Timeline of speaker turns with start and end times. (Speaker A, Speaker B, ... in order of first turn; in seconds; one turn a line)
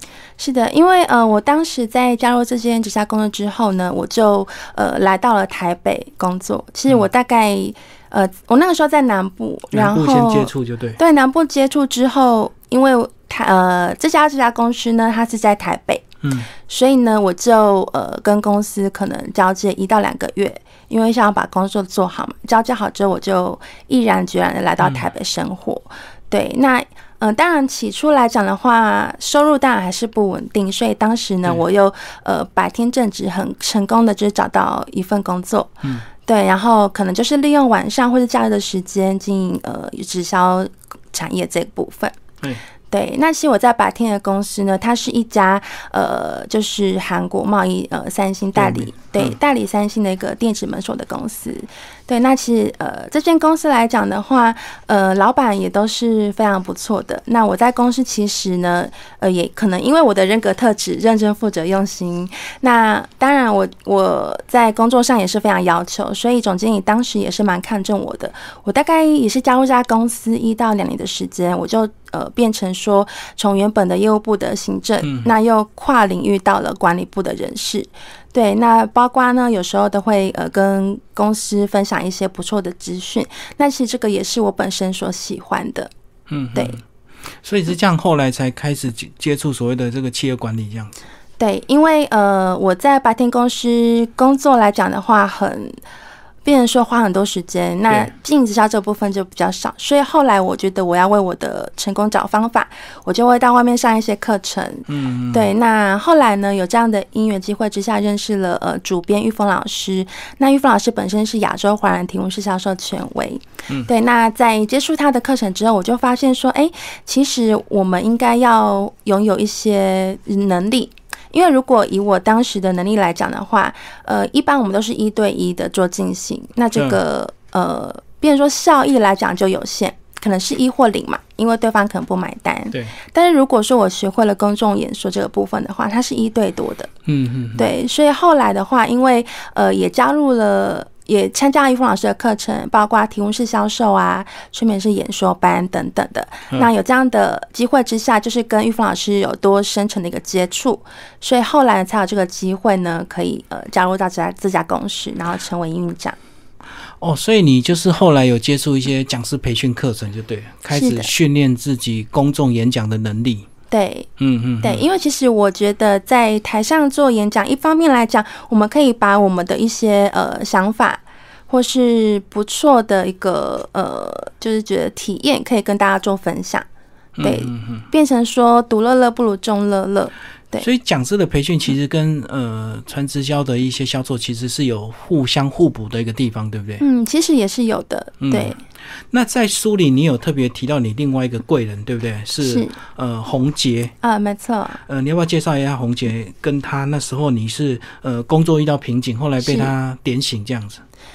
Speaker A: 0.4-16.1
Speaker B: 9.7-11.0
Speaker B: 16.2-16.5
Speaker A: 16.6-42.1
Speaker A: 42.9-85.9
Speaker B: 48.6-49.4
Speaker B: 75.0-75.3
Speaker B: 86.3-86.8
Speaker B: 87.4-90.9
Speaker A: 91.4-95.8
Speaker A: 96.4-136.9
Speaker B: 104.9-105.5
Speaker B: 137.1-137.7
Speaker A: 137.6-156.2
Speaker B: 157.0-163.5
Speaker A: 160.7-161.1
Speaker A: 163.7-164.1
Speaker B: 164.2-164.8
Speaker A: 164.6-176.7
Speaker B: 177.2-177.9
Speaker A: 177.2-180.7
Speaker B: 180.6-186.8
Speaker A: 186.8-188.6
Speaker B: 188.2-188.6
Speaker B: 189.1-194.0
Speaker A: 192.4-192.8
Speaker A: 194.0-194.8
Speaker B: 194.9-200.8
Speaker A: 199.4-199.7